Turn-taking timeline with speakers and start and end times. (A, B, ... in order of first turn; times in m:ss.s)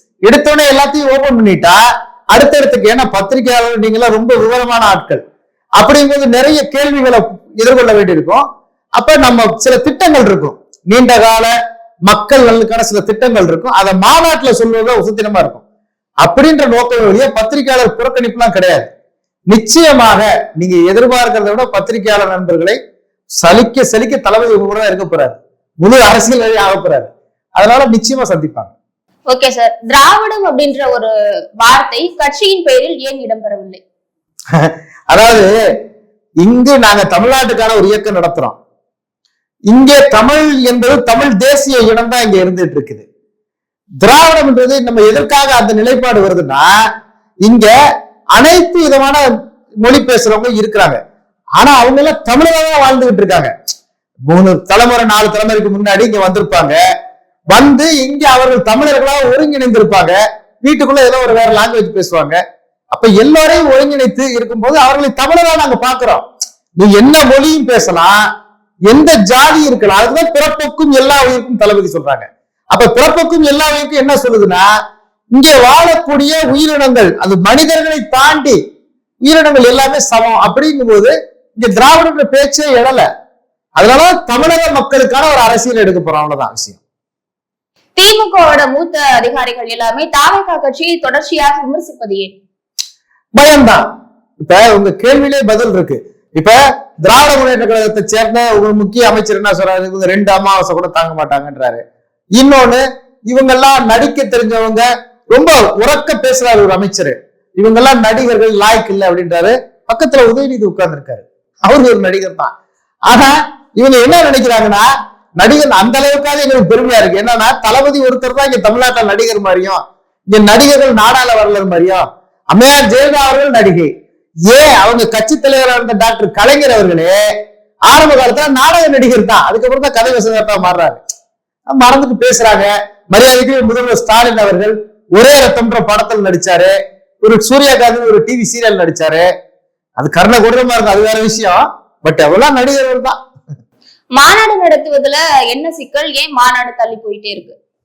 0:00.3-0:01.8 A
0:02.3-0:05.2 A
0:05.8-0:08.4 A
0:09.0-0:11.5 A
0:12.1-0:15.6 A
0:16.2-0:18.9 A
0:19.5-0:22.8 A
0:23.4-0:28.7 A
0:29.3-0:33.8 B
0:34.5-0:35.5 A
0:36.4-0:38.6 A
0:39.7-0:43.0 A
0:44.0-0:46.7 A
0:47.5-0:47.7 A
0:48.4-0:49.2 A
0:49.8-0:51.0 A
0:51.6-0:53.5 A
0:54.3-0:56.8 A
0:57.5-1:02.4 A
1:02.9-1:06.2 A
1:06.8-1:08.2 A
1:08.9-1:14.7 A
1:15.4-1:18.6 A
1:19.2-1:23.1 A
1:23.8-1:26.8 A
1:28.0-1:32.4 B
1:33.4-1:33.8 A
1:34.4-1:41.8 A
1:42.4-1:52.5 A
1:53.1-2:03.9 A
2:04.5-2:07.2 A
2:07.9-2:11.0 A
2:11.7-2:19.3 A
2:20.0-2:23.2 A
2:24.2-2:27.6 B